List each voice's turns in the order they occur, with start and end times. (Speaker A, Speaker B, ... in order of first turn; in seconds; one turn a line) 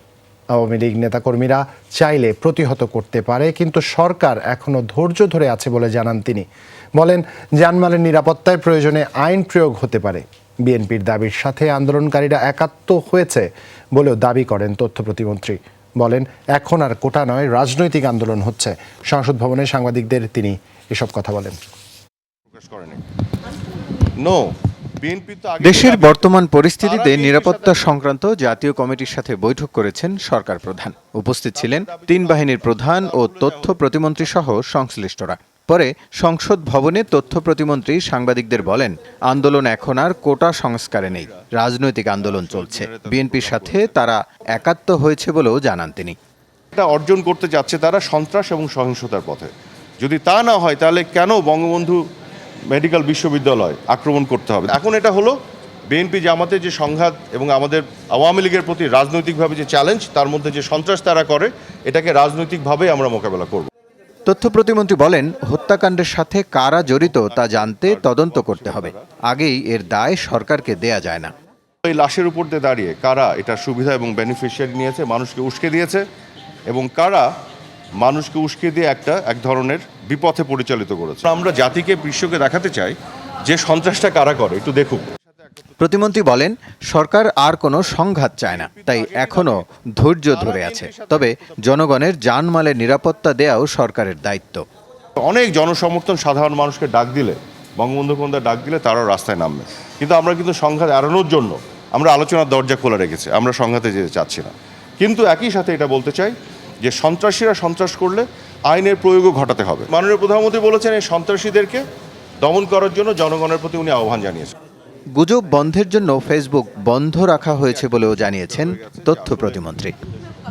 Speaker A: 0.6-6.5
Speaker A: 7.0-21.6
Speaker B: 22.5-23.0
Speaker B: 24.2-27.9
Speaker C: 25.6-46.2
Speaker B: 31.6-33.9
Speaker B: 41.1-41.4
Speaker B: 42.2-44.1
Speaker B: 46.7-52.0
Speaker B: 52.7-55.4
Speaker B: 55.9-63.7
Speaker C: 64.3-71.3
Speaker B: 66.9-69.1
Speaker B: 71.8-76.0
Speaker B: 76.7-77.3
Speaker B: 78.0-83.0
Speaker B: 83.5-85.6
Speaker C: 85.8-94.6
Speaker B: 88.4-89.6
Speaker B: 90.3-92.0
Speaker B: 95.2-111.8
Speaker B: 112.4-114.5
Speaker C: 115.2-119.9
Speaker B: 117.6-119.9